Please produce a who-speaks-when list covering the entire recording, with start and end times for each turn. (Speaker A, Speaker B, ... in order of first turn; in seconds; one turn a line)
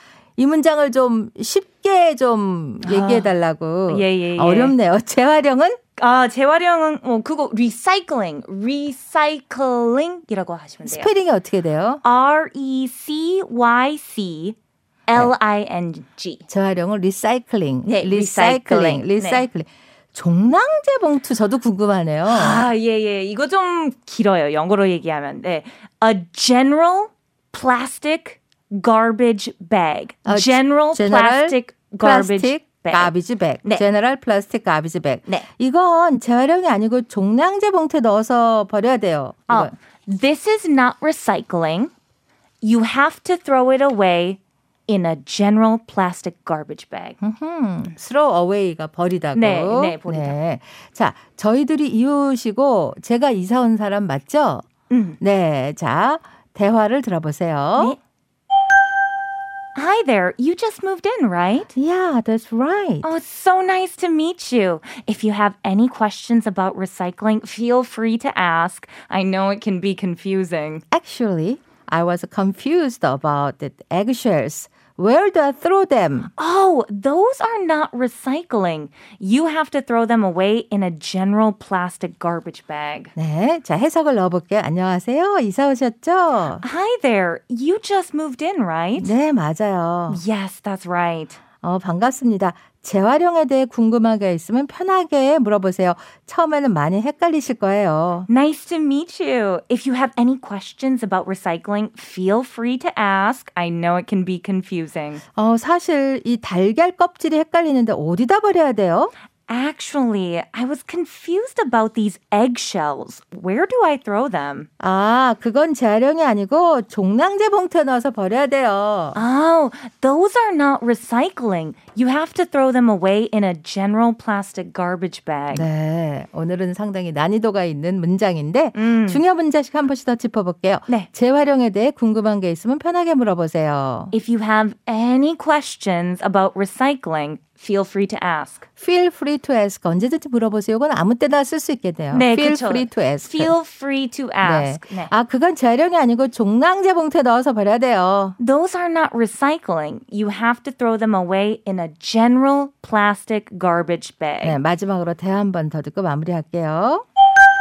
Speaker A: 0.4-5.8
Speaker B: 2.8-3.3
Speaker B: 3.9-4.8
Speaker B: 6.0-11.1
Speaker A: 10.8-12.0
Speaker B: 12.0-16.4
Speaker A: 16.5-22.7
Speaker B: 17.8-19.5
Speaker B: 22.3-33.1
Speaker A: 30.3-39.8
Speaker B: 39.5-41.9
Speaker B: 42.6-47.2
Speaker A: 47.2-54.7
Speaker B: 49.4-50.4
Speaker B: 54.9-55.2
Speaker A: 55.2-58.0
Speaker B: 59.8-61.7
Speaker A: 61.8-63.1
Speaker B: 63.0-70.8
Speaker A: 70.9-76.3
Speaker B: 76.4-83.1
Speaker A: 83.2-86.6
Speaker B: 86.6-89.1
Speaker A: 89.0-90.2
Speaker B: 90.1-91.4
Speaker A: 91.6-98.3
Speaker B: 98.3-105.2
Speaker A: 105.4-109.1
Speaker B: 109.5-114.7
Speaker A: 114.8-119.2
Speaker B: 119.2-125.7
Speaker A: 125.5-134.1
Speaker B: 128.7-129.2
Speaker B: 134.1-138.6
Speaker A: 138.8-143.5
Speaker B: 142.1-145.1
Speaker A: 144.4-148.4
Speaker B: 148.4-154.6
Speaker A: 154.4-157.1